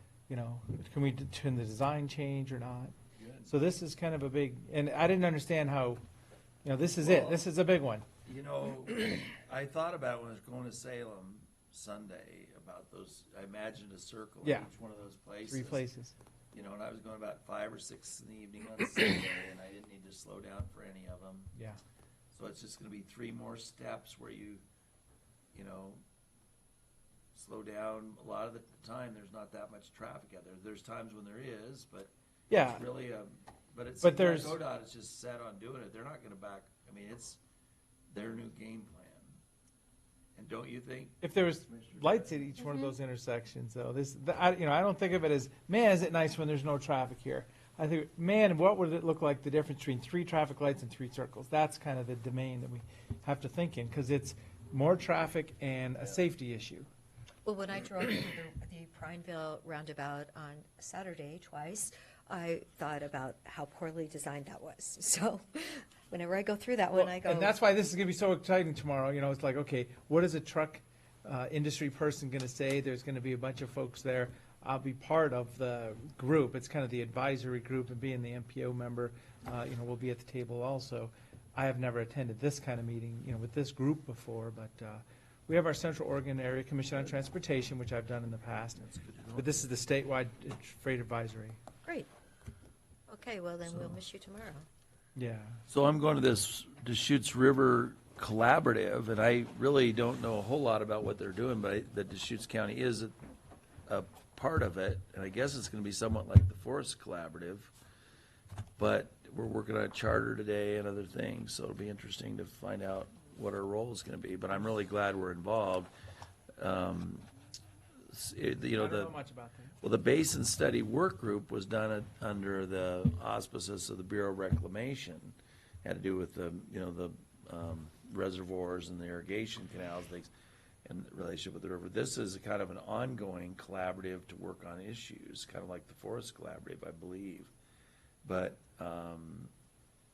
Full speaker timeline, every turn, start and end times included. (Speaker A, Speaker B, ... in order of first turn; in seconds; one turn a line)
Speaker A: 0.3-2.9
Speaker B: 3.2-3.6
Speaker A: 3.5-6.0
Speaker A: 6.6-8.1
Speaker B: 6.9-7.5
Speaker B: 8.2-15.8
Speaker A: 14.4-14.7
Speaker A: 15.5-16.1
Speaker B: 16.5-21.5
Speaker A: 21.5-21.8
Speaker B: 22.3-24.6
Speaker B: 25.5-26.0
Speaker B: 27.3-37.4
Speaker A: 32.5-32.8
Speaker A: 34.0-34.6
Speaker B: 38.1-39.4
Speaker B: 40.4-42.6
Speaker A: 41.2-56.9
Speaker C: 42.6-42.9
Speaker C: 57.5-67.5
Speaker A: 66.9-88.8
Speaker B: 88.8-89.7
Speaker A: 89.3-91.6
Speaker C: 93.1-94.7
Speaker B: 93.7-93.9
Speaker A: 95.2-95.6
Speaker B: 95.7-103.2
Speaker B: 103.9-107.7
Speaker B: 108.8-115.9
Speaker B: 116.6-117.3
Speaker B: 118.1-119.1
Speaker A: 118.8-119.8
Speaker B: 119.8-130.3
Speaker B: 130.8-137.5
Speaker B: 138.2-139.5